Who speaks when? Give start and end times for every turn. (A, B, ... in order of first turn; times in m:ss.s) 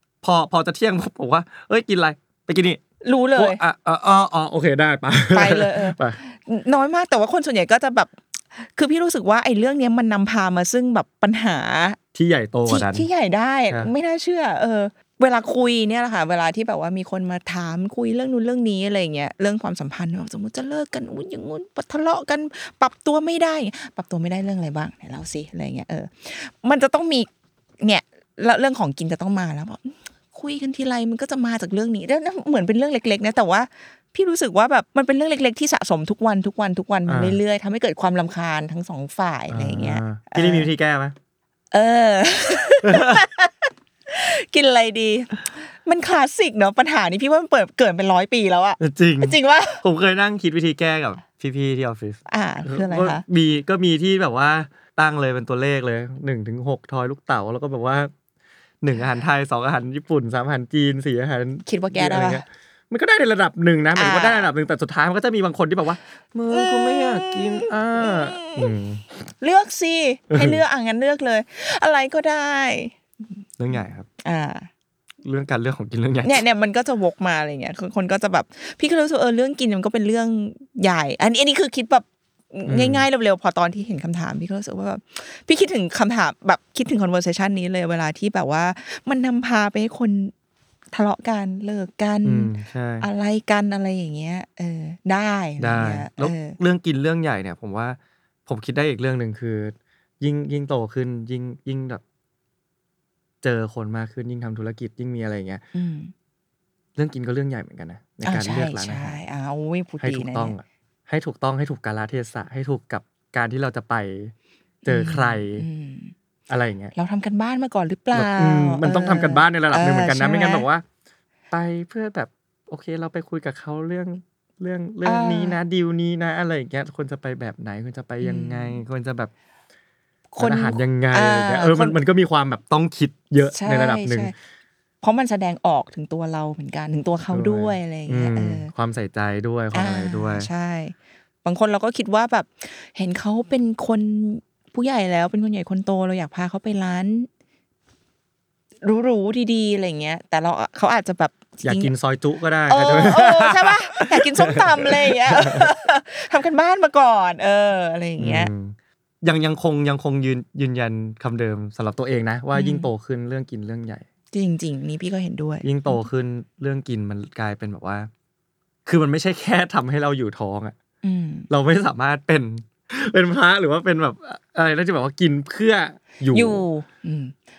0:00.2-0:02.8 A
0:03.0-0:03.6 B
0:03.4-0:06.2 A
0:05.3-0:12.0 B
0:12.1-0:13.1 A
0:12.7-0:27.3 B
0:27.8-0:40.7 B
0:37.1-0:37.4 A
0:39.5-0:41.2 A
0:41.7-0:49.8 B
0:42.8-0:43.3 A
0:48.8-0:58.1 A
0:52.3-0:53.2 B
0:58.8-1:09.0 A
1:01.7-1:02.4 B
1:04.0-1:04.5 B
1:06.5-1:08.7 B
1:09.4-1:13.0 B
1:10.3-1:10.6 A
1:13.6-1:14.1 A
1:13.7-1:14.7 B
1:15.2-1:16.4 A
1:16.2-1:30.3 B
1:22.7-1:23.0 A
1:30.9-1:36.6 B
1:32.2-1:33.1 A
1:35.6-1:42.0 A
1:43.4-1:45.6 A
1:45.7-1:46.1 B
1:47.0-1:49.2 A
1:48.2-1:50.6 B
1:50.0-1:54.3 A
1:54.8-1:56.1 B
1:54.9-1:55.7 A
1:56.5-1:56.9 A
1:57.0-2:00.7 B
1:58.1-2:00.8 A
2:01.5-2:09.3 A
2:05.0-2:05.6 B
2:08.2-2:08.8 B
2:10.3-2:12.0 B
2:10.4-2:14.3 A
2:13.5-2:14.3 B
2:15.0-2:18.7 B
2:17.3-2:20.5 A
2:19.7-2:27.3 B
2:28.8-2:31.9 B
2:31.6-2:35.7 A
2:32.7-2:38.5 B
2:38.2-2:44.0 A
2:42.5-2:42.9 B
2:44.3-2:46.0 B
2:45.6-2:48.1 A
2:48.9-2:50.8 A
2:51.0-2:51.5 B
2:51.5-2:56.6 A
2:56.3-2:57.3 B